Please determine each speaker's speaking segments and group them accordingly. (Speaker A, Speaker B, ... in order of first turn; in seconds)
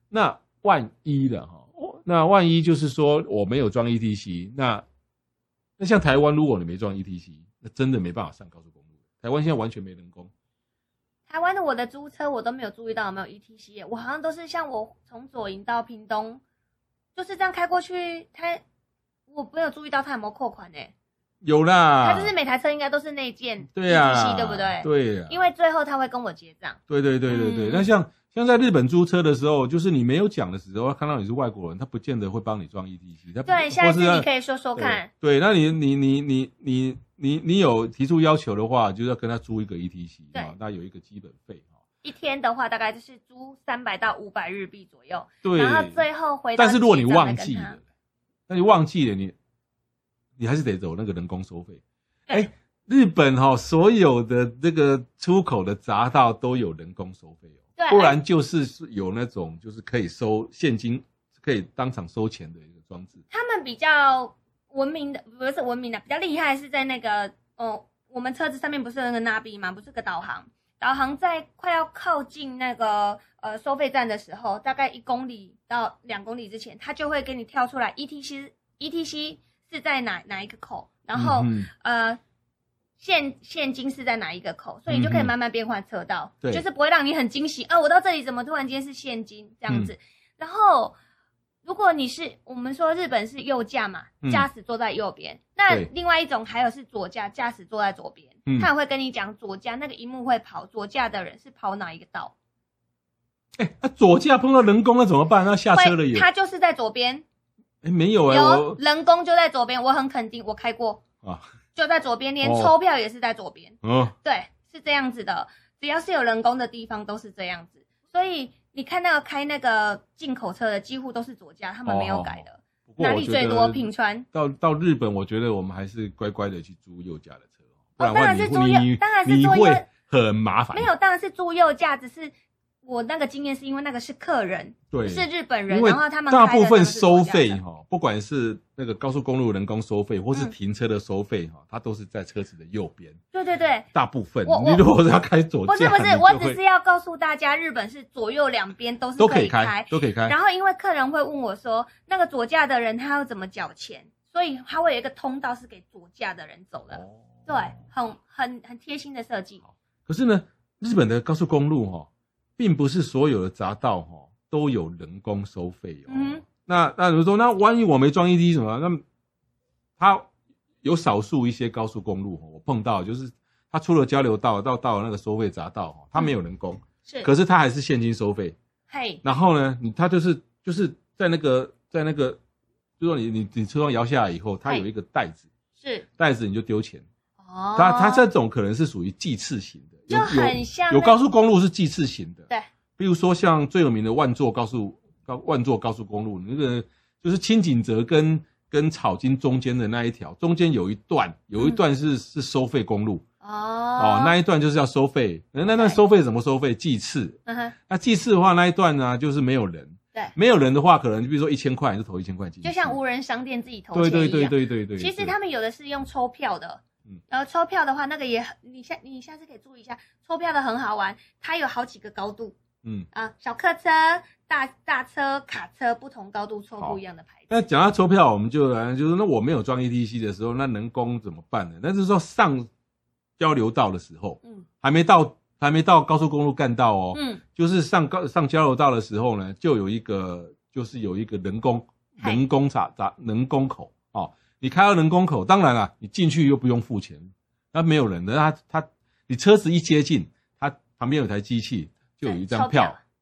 Speaker A: 0.1-4.8, 5.8-10.3, 21.4-22.3, 23.7-25.4, 26.9-41.7, 45.4-46.0, 46.6-47.8, 48.5-49.3, 50.4-63.2, 81.1-81.7, 84.9-85.3, 89.7-89.9, 94.2-94.5, 103.6-106.3, 107.8-108.8, 112.4-112.7, 113.8-114.1, 121.8-130.9, 134.9-143.2, 143.9-146.6, 149.2-150.3, 156.9-157.8, 160.0-169.0, 170.0-170.3, 170.8-178.6, 179.2-182.4, 183.0-185.4, 186.2-187.0, 187.8-203.2, 204.0-207.4, 207.9-213.0, 213.9-215.3, 226.8-232.7, 233.4-253.0
Speaker B: 11.3-16.4, 17.1-18.6, 19.3-20.9, 22.0-27.9, 33.5-35.1, 42.0-47.8, 57.8-58.2, 63.3-82.2, 83.0-90.9, 91.6-102.3, 105.7-107.2, 108.3-111.0, 111.7-124.3, 128.0-129.9, 130.7-132.3, 132.8-137.6, 143.3-143.9, 144.4-144.8, 145.7-159.6, 166.1-166.4, 178.9-179.2, 185.8-186.1, 187.4-188.2, 190.1-191.1, 203.4-204.3, 205.7-206.0, 207.4-207.8, 212.6-222.6, 223.1-227.5, 237.1-237.4, 252.2-253.0